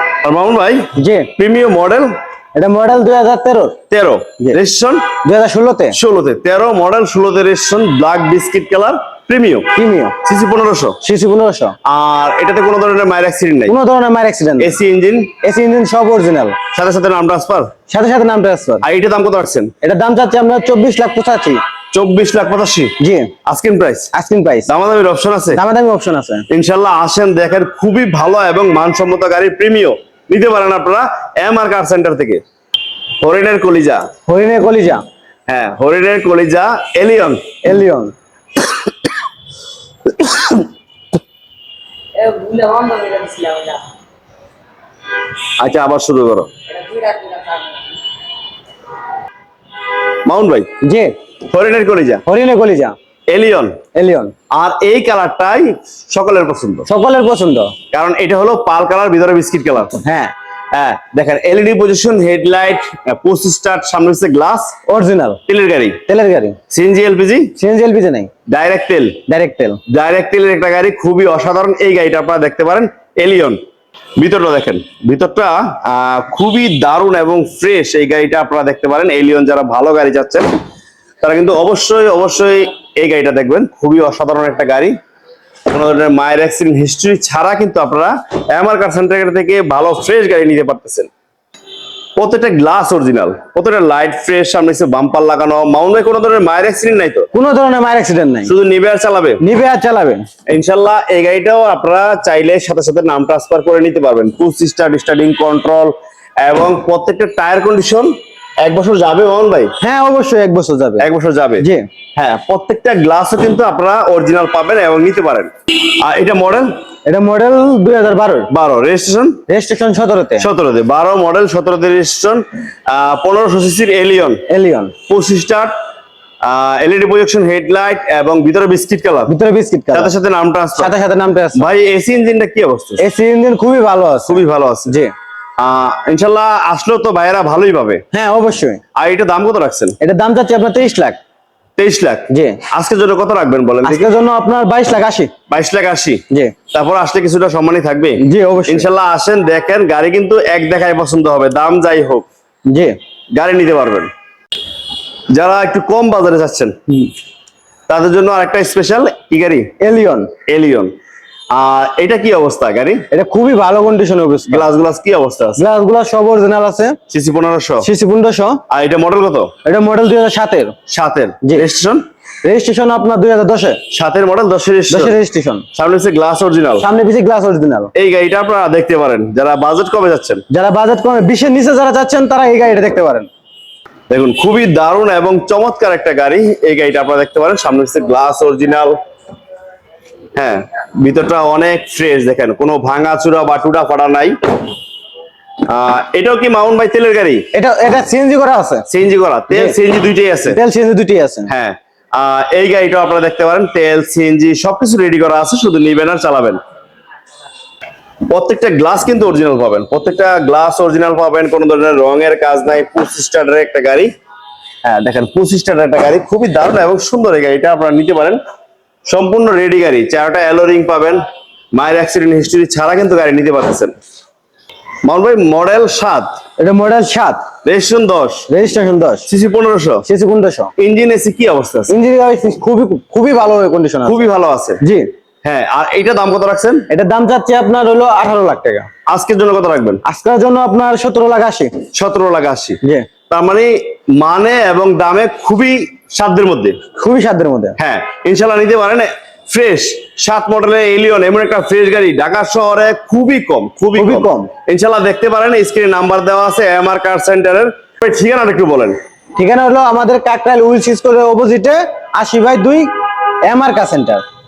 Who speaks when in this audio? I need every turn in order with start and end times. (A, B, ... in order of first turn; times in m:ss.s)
0:00.2-0:02.1 A
0:01.0-0:01.3 B
0:02.6-0:03.8 B
0:03.9-0:05.1 A
0:05.2-0:06.0 B
0:05.9-0:11.0 A
0:09.8-0:10.1 B
0:11.0-0:11.8 B
0:11.8-0:13.7 A
0:13.7-0:14.8 B
0:14.6-0:15.3 A
0:15.4-0:16.6 B
0:16.7-0:17.7 A
0:17.9-0:18.8 B
0:18.8-0:19.7 A
0:19.8-0:21.6 B
0:21.9-0:24.1 A
0:23.0-0:23.3 B
0:24.1-0:24.7 B
0:24.7-0:25.6 A
0:25.5-0:26.4 B
0:26.5-0:32.4 A
0:33.2-0:34.1 A
0:34.3-0:35.0 B
0:35.5-0:37.5 A
0:37.6-0:38.1 B
0:42.2-0:43.8 B
0:45.6-0:46.5 A
0:46.7-0:47.8 B
0:50.2-0:50.7 A
0:50.8-0:51.1 B
0:51.5-0:52.2 A
0:52.2-0:52.9 B
0:53.3-0:53.8 A
0:53.9-0:54.3 B
0:54.5-0:56.9 A
0:56.9-0:57.7 B
0:57.9-1:00.0 A
1:00.0-1:00.3 B
1:00.7-1:04.8 A
1:04.9-1:05.4 B
1:05.4-1:06.0 A
1:06.1-1:06.6 B
1:06.7-1:07.5 A
1:07.6-1:08.3 B
1:08.5-1:09.2 A
1:09.3-1:09.8 B
1:09.9-1:13.6 A
1:14.2-1:20.5 A
1:21.2-1:24.9 A
1:25.7-1:31.1 A
1:32.2-1:37.3 A
1:37.3-1:38.5 B
1:38.4-1:39.4 A
1:39.4-1:40.2 B
1:40.5-1:49.7 A
1:49.8-1:51.0 B
1:51.0-1:56.7 A
1:51.6-1:51.9 B
1:57.0-1:58.5 B
1:58.5-1:59.4 A
1:59.5-2:00.5 B
2:00.4-2:04.4 A
2:04.5-2:04.9 B
2:05.1-2:05.7 A
2:06.4-2:09.3 A
2:09.3-2:10.1 B
2:09.9-2:10.9 A
2:10.8-2:11.6 B
2:11.6-2:13.0 A
2:13.0-2:15.1 B
2:14.3-2:14.9 A
2:15.6-2:18.0 A
2:18.1-2:18.8 B
2:19.0-2:20.0 A
2:20.0-2:21.2 B
2:21.8-2:24.1 A
2:22.3-2:22.6 B
2:23.8-2:25.3 B
2:25.5-2:32.3 A
2:28.2-2:28.9 B
2:32.7-2:33.0 B
2:33.4-2:34.1 A
2:35.3-2:36.8 A
2:37.9-2:39.7 A
2:39.8-2:40.3 B
2:40.5-2:40.9 A
2:41.5-2:43.0 A
2:43.1-2:44.7 B
2:44.5-2:45.6 A
2:45.6-2:47.0 B
2:47.1-2:47.9 A
2:47.8-2:48.6 B
2:48.7-2:49.5 A
2:49.6-2:50.7 B
2:50.9-2:52.0 A
2:52.4-2:53.8 B
2:53.9-2:55.2 A
2:54.9-2:55.6 B
2:55.7-2:56.9 A
2:56.8-2:57.9 B
2:57.9-3:00.4 A
3:00.5-3:03.3 B
3:04.1-3:09.0 A
3:10.3-3:14.4 A
3:15.6-3:17.4 A
3:17.5-3:18.8 B
3:18.9-3:20.6 A
3:19.5-3:19.8 B
3:20.5-3:21.5 B
3:21.5-3:26.6 A
3:28.3-3:34.1 A
3:34.8-3:38.4 A
3:39.0-3:41.2 A
3:41.7-3:43.9 A
3:45.0-3:46.4 A
3:46.6-3:47.5 B
3:47.6-3:48.5 A
3:48.5-3:49.3 B
3:49.3-3:50.0 A
3:50.0-3:50.7 B
3:50.8-3:51.9 A
3:51.9-3:54.2 B
3:54.0-3:54.8 A
3:54.8-3:55.1 B
3:55.4-3:56.9 A
3:56.9-3:58.9 B
3:59.1-4:00.0 A
4:00.0-4:01.7 B
4:01.9-4:02.8 A
4:02.8-4:03.1 B
4:03.3-4:06.8 A
4:07.0-4:07.8 B
4:07.8-4:19.0 A
4:14.0-4:14.5 B
4:19.4-4:22.9 B
4:23.4-4:24.2 B